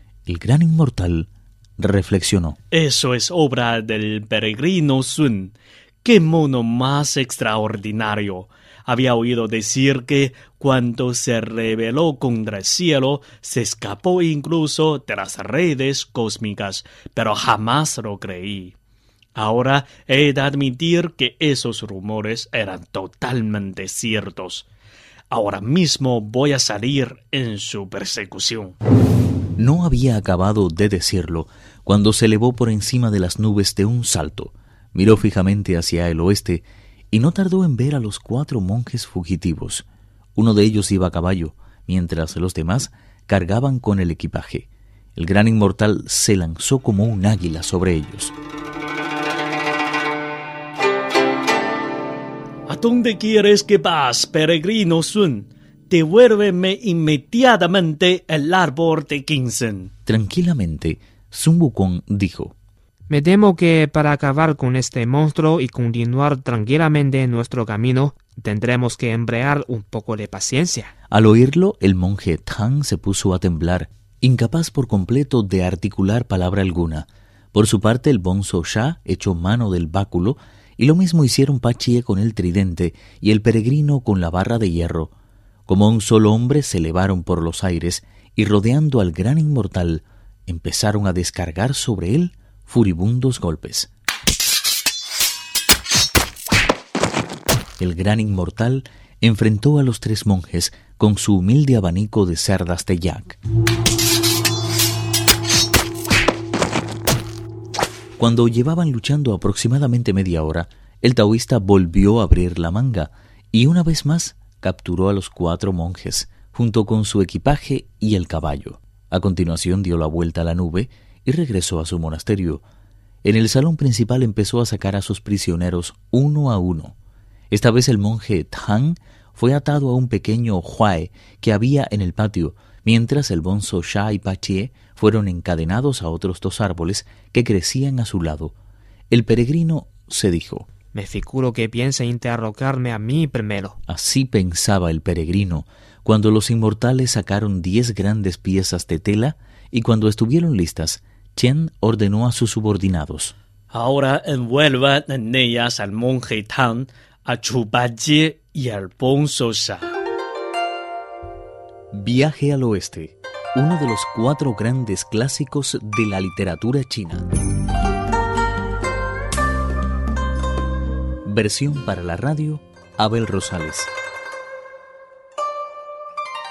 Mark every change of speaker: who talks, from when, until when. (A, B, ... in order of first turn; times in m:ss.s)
0:00.2-0:02.6 A
0:02.7-0:18.7 B
0:19.3-0:24.7 B
0:25.3-0:28.8 B
0:29.6-0:48.4 A
0:52.7-0:59.9 B
1:00.0-1:02.5 A
1:03.1-1:10.9 C
1:11.1-1:25.1 A
1:25.7-1:33.9 A
1:37.8-1:43.4 A
1:48.2-2:02.6 A
2:03.2-2:07.0 A
2:07.5-2:18.6 A
2:19.1-2:20.7 A
2:20.9-2:23.8 C
2:23.9-2:33.3 A
2:33.7-2:39.9 B
2:41.9-2:47.3 A
2:51.2-2:53.9 A